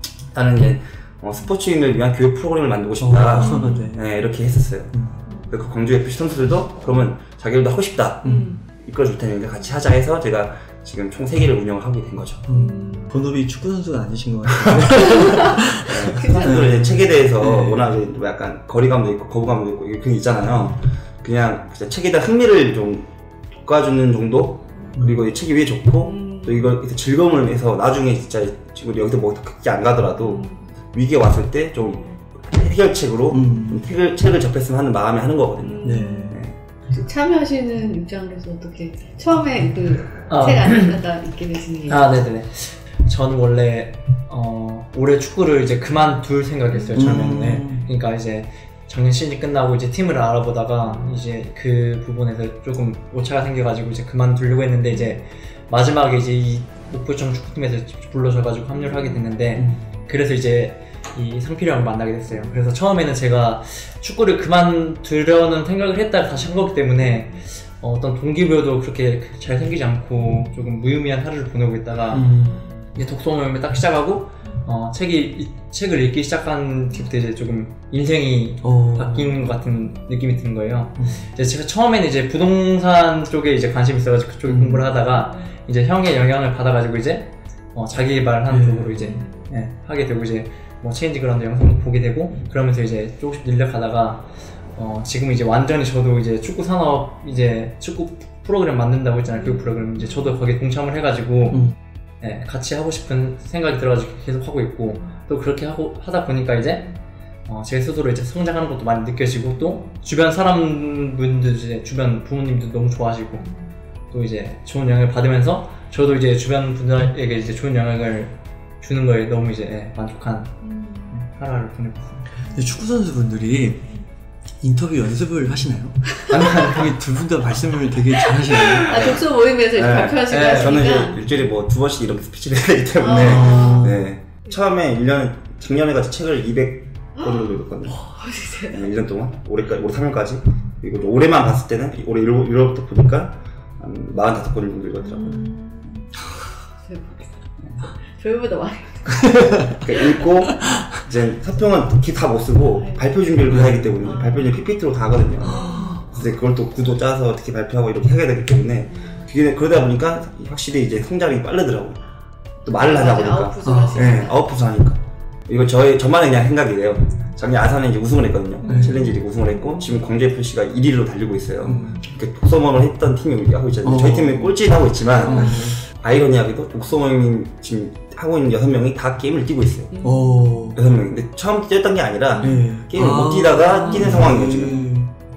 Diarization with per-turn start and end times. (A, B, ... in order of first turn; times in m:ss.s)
0:00.3-0:04.9 A
0:03.0-0:04.0 B
0:03.4-0:03.9 C
0:04.9-0:05.2 B
0:05.3-0:05.6 C
0:05.5-0:08.2 A
0:08.2-0:08.6 B
0:08.2-0:08.6 C
0:08.8-0:12.4 A
0:12.5-0:17.9 B
0:12.5-0:13.1 C
0:15.8-0:23.1 A
0:16.1-0:16.7 C
0:23.6-0:36.6 A
0:26.0-0:26.6 C
0:30.3-0:30.5 C
0:33.3-0:33.8 B
0:35.6-0:36.4 C
0:35.8-0:36.4 B
0:36.9-0:42.1 C
0:40.3-0:41.0 D
0:41.9-1:12.3 D
0:46.7-0:47.1 C
0:46.9-0:47.9 B
0:59.6-1:00.0 B
1:12.1-1:12.7 B
1:12.9-1:41.6 D
1:18.6-1:19.4 B
1:24.4-1:24.9 B
1:28.5-1:29.2 B
1:42.2-1:46.9 D
1:47.5-1:53.5 D
1:54.1-2:00.6 D
2:00.6-2:01.1 C
2:01.1-2:02.2 D
2:02.4-2:03.9 B
2:04.6-2:09.2 B
2:06.3-2:07.0 D
2:08.7-2:11.3 C
2:08.9-2:18.0 A
2:10.1-2:10.9 D
2:13.0-2:14.0 C
2:13.1-2:14.0 B
2:18.0-2:18.8 C
2:18.7-2:25.5 A
2:25.0-2:26.2 C
2:26.8-2:27.3 C
2:28.0-2:30.2 C
2:29.6-2:42.0 A
2:30.6-2:30.8 B
2:32.8-2:33.1 C
2:33.5-2:34.0 B
2:34.0-2:34.6 C
2:35.4-2:36.1 B
2:35.5-2:35.9 C
2:42.6-2:59.9 A
2:42.7-2:44.4 C
2:43.6-2:44.2 B
2:48.6-2:49.1 B
2:51.6-2:52.0 B
2:53.8-2:54.6 B
2:55.2-2:55.8 B
2:55.2-2:55.6 C
2:59.9-3:00.7 C
3:00.0-3:00.8 B
3:00.7-3:04.9 A
3:02.4-3:05.1 B
3:03.8-3:04.2 C